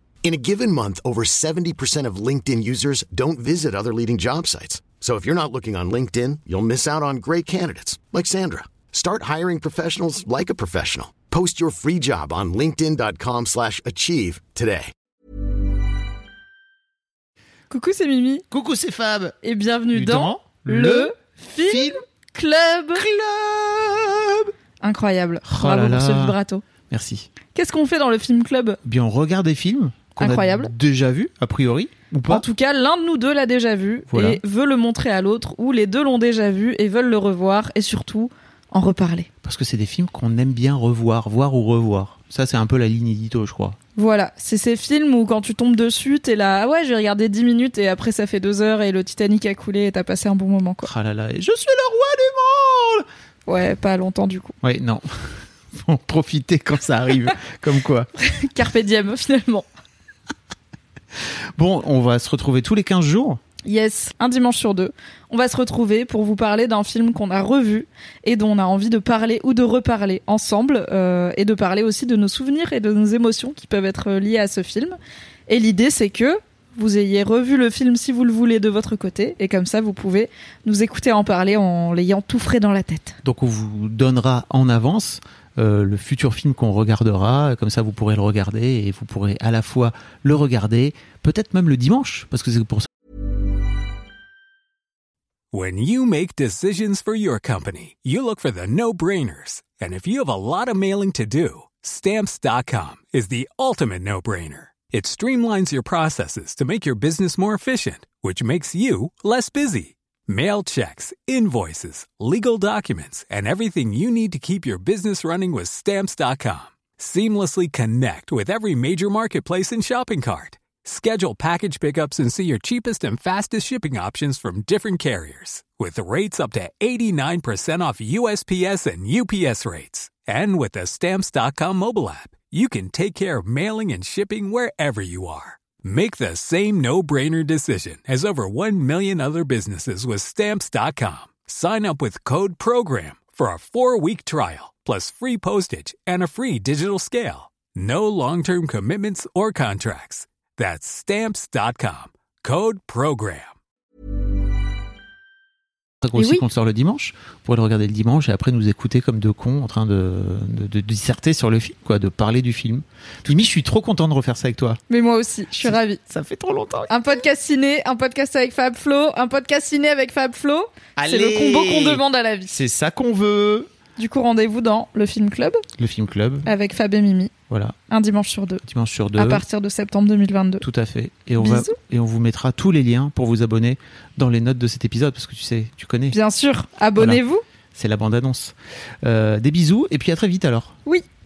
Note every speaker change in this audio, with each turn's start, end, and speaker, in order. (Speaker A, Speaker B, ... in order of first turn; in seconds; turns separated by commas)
Speaker A: 0.2-14.9, Speaker B: 17.7-18.4, Speaker C: 18.5-19.4, Speaker B: 19.4-23.0, Speaker C: 19.9-21.1, Speaker C: 21.6-22.0, Speaker C: 22.9-24.5, Speaker B: 24.8-26.6, Speaker C: 25.4-26.4, Speaker C: 26.9-27.3, Speaker B: 27.6-28.8, Speaker C: 28.8-32.5, Speaker B: 30.2-30.7, Speaker B: 32.3-39.3, Speaker C: 34.1-34.4, Speaker C: 39.4-43.8, Speaker B: 44.0-50.9, Speaker C: 50.8-53.1, Speaker B: 53.5-54.5, Speaker C: 54.6-55.1, Speaker C: 55.7-58.1, Speaker B: 58.3-59.7, Speaker C: 61.6-63.4, Speaker B: 63.6-75.0, Speaker B: 75.5-83.2, Speaker C: 83.2-92.9, Speaker D: 95.5-153.5, Speaker C: 156.0-164.8, Speaker B: 156.2-156.4, Speaker B: 164.9-166.0, Speaker C: 165.6-167.2, Speaker B: 166.9-172.6, Speaker C: 171.0-173.7, Speaker B: 174.0-175.6, Speaker C: 175.8-176.5, Speaker B: 176.4-177.3, Speaker C: 177.5-177.8, Speaker B: 177.9-178.6, Speaker C: 178.6-179.4, Speaker B: 179.2-180.7, Speaker C: 180.6-186.2, Speaker B: 181.4-181.7, Speaker B: 186.1-187.4, Speaker C: 187.0-187.2, Speaker C: 187.8-190.8